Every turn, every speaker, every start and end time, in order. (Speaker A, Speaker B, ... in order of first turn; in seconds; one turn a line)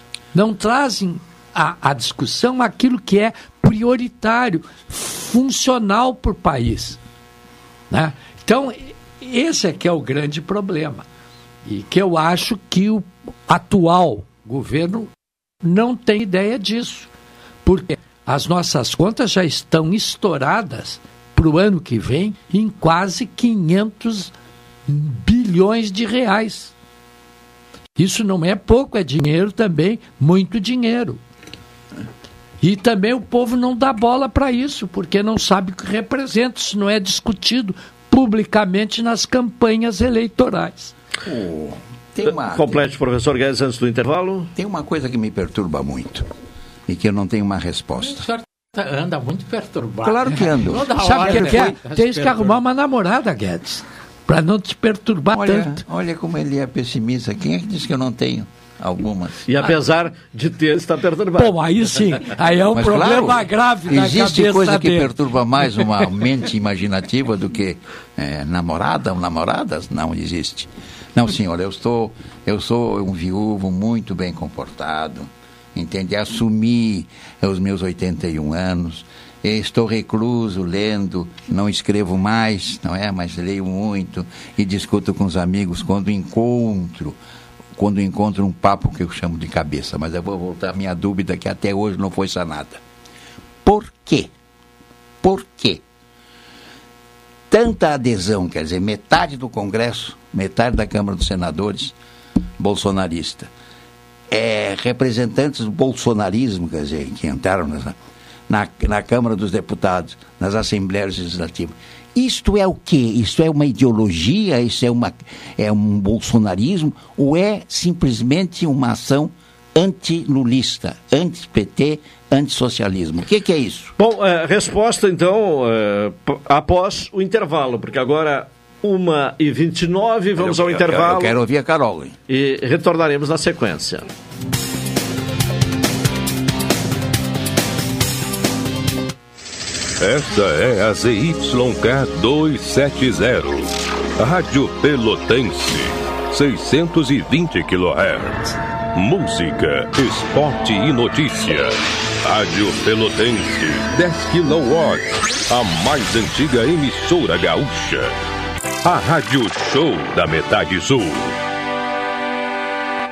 Speaker A: 0.3-7.0
Speaker A: 7.9-11.1
Speaker A: 11.6-15.1
Speaker A: 15.6-17.1
Speaker A: 17.6-24.3
Speaker A: 24.9-26.7
Speaker A: 27.9-31.2
Speaker A: 32.6-40.9
Speaker B: 41.2-42.8
Speaker C: 42.2-44.5
Speaker B: 44.5-46.3
Speaker B: 46.9-48.3
Speaker D: 48.1-52.6
Speaker A: 50.0-55.8
Speaker B: 50.2-51.8
Speaker B: 55.3-59.4
Speaker C: 59.5-61.6
Speaker A: 61.4-66.1
Speaker B: 62.7-87.2
Speaker B: 87.8-92.8
Speaker B: 93.6-94.3
Speaker B: 95.2-95.8
Speaker B: 97.5-101.9
Speaker B: 102.6-103.5
Speaker B: 104.3-107.9
Speaker B: 108.5-123.9
Speaker C: 124.0-131.4
Speaker B: 130.3-132.1
Speaker C: 132.3-134.1
Speaker E: 140.0-158.1
Speaker E: 158.8-161.3